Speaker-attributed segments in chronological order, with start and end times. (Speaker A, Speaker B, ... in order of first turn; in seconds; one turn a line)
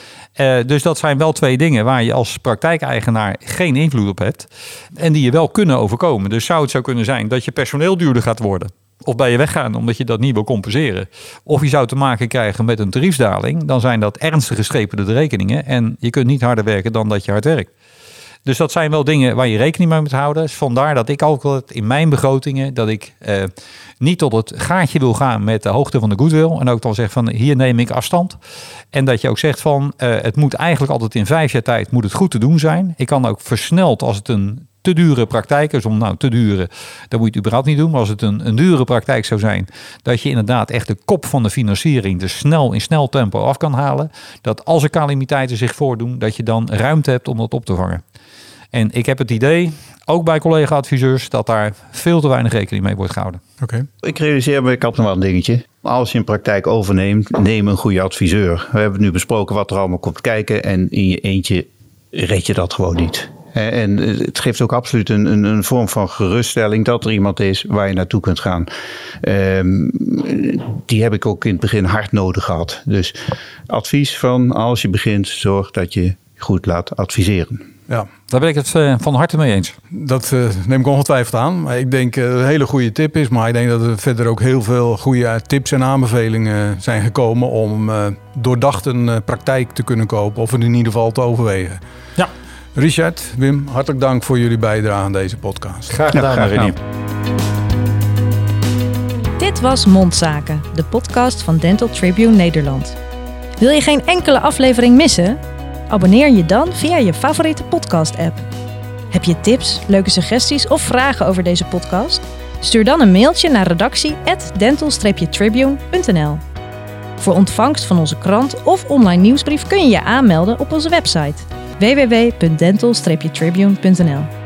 Speaker A: 0.4-17.7
Speaker A: 18.4-28.4
Speaker A: 28.9-48.0
Speaker A: 48.7-53.4
Speaker B: 53.6-53.9
Speaker C: 54.0-68.7
Speaker C: 69.2-77.7
Speaker A: 78.3-79.7
Speaker B: 79.9-91.8
Speaker B: 92.7-95.9
Speaker A: 95.9-96.8
Speaker C: 96.1-96.4
Speaker D: 99.4-103.0
Speaker D: 103.6-105.4
Speaker D: 105.9-108.5
Speaker D: 109.1-116.4
Speaker D: 117.2-124.3